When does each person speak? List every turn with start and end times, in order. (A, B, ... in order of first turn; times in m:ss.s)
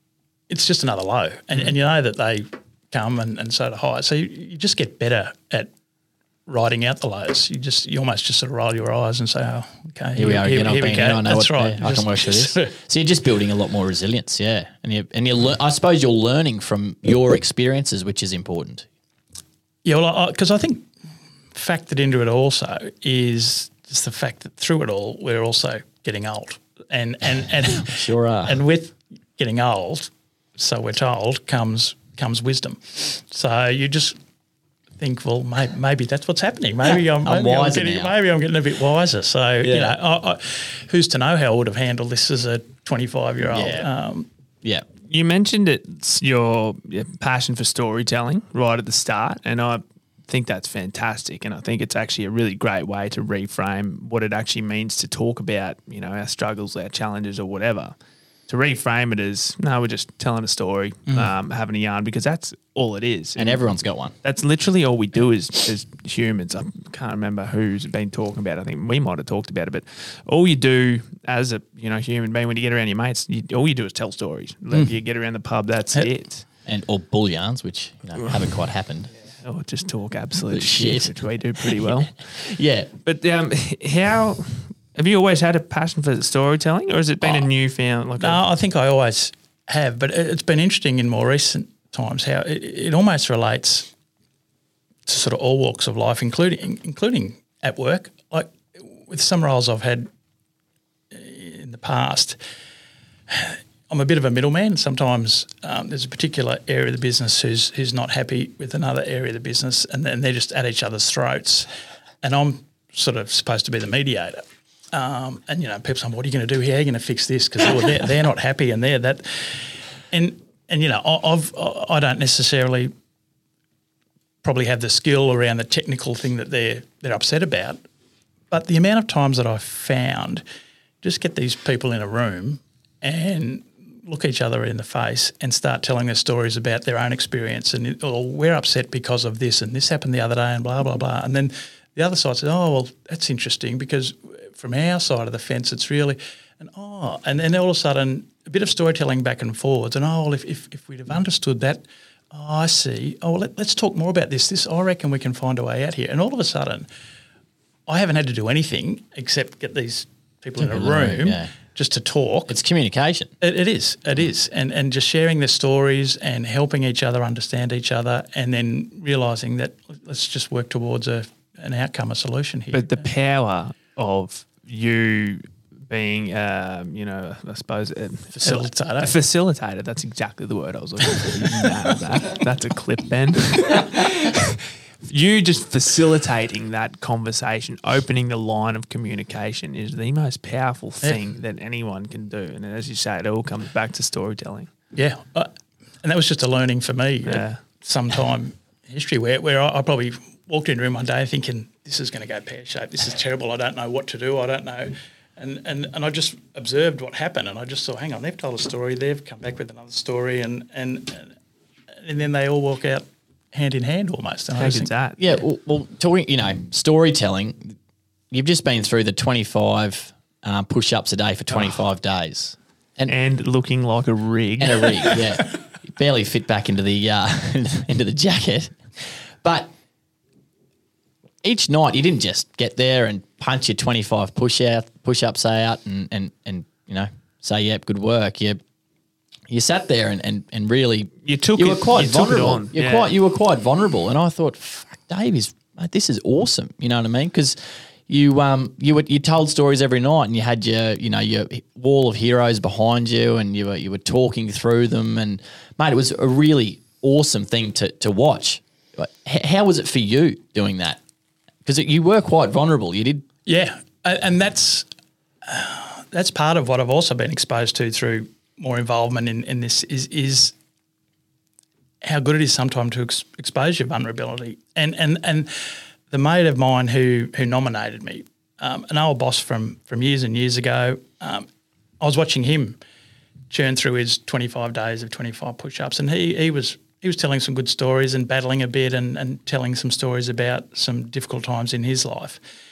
0:00.5-0:05.7 A
0:06.5-0:12.7 A
0:10.2-0:18.9 B
0:19.8-0:20.9 A
0:21.5-0:34.2 A
0:27.7-0:28.6 B
0:35.0-0:44.3 A
0:37.2-0:38.1 B
0:39.6-0:40.0 B
0:43.5-0:43.9 B
0:45.1-0:58.0 C
0:58.5-1:03.7 C
1:03.4-1:04.1 B
1:04.2-1:16.5 C
1:16.7-1:19.1 B
1:18.2-1:18.4 C
1:19.3-1:22.5 C
1:20.5-1:22.9 B
1:23.0-1:28.4 C
1:28.2-1:33.9 A
1:35.1-1:40.1 A
1:41.1-1:42.4 A
1:43.3-1:51.7 A
1:52.2-1:54.4 A
1:54.9-2:02.9 A
2:04.4-2:07.8 A
2:08.5-2:10.4 A
2:11.0-2:36.9 A
2:37.9-2:42.6 A
2:40.6-2:41.5 B
2:42.5-2:43.3 B
2:43.4-2:53.1 A
2:52.7-3:14.7 C
2:58.3-2:59.1 A
3:01.2-3:02.0 A
3:14.9-3:15.5 A
3:16.0-3:31.4 A
3:17.3-3:17.6 C
3:31.9-3:34.9 A
3:34.6-3:35.2 C
3:35.2-3:37.8 B
3:38.3-3:43.1 B
3:43.1-3:45.2 C
3:44.6-3:49.7 B
3:51.4-3:58.6 B
3:59.5-4:21.0 B
4:01.2-4:03.1 C
4:21.7-4:23.2 B
4:23.5-4:24.9 A
4:25.4-4:30.6 A
4:32.0-4:41.5 A
4:42.0-4:42.8 A
4:43.5-4:52.4 A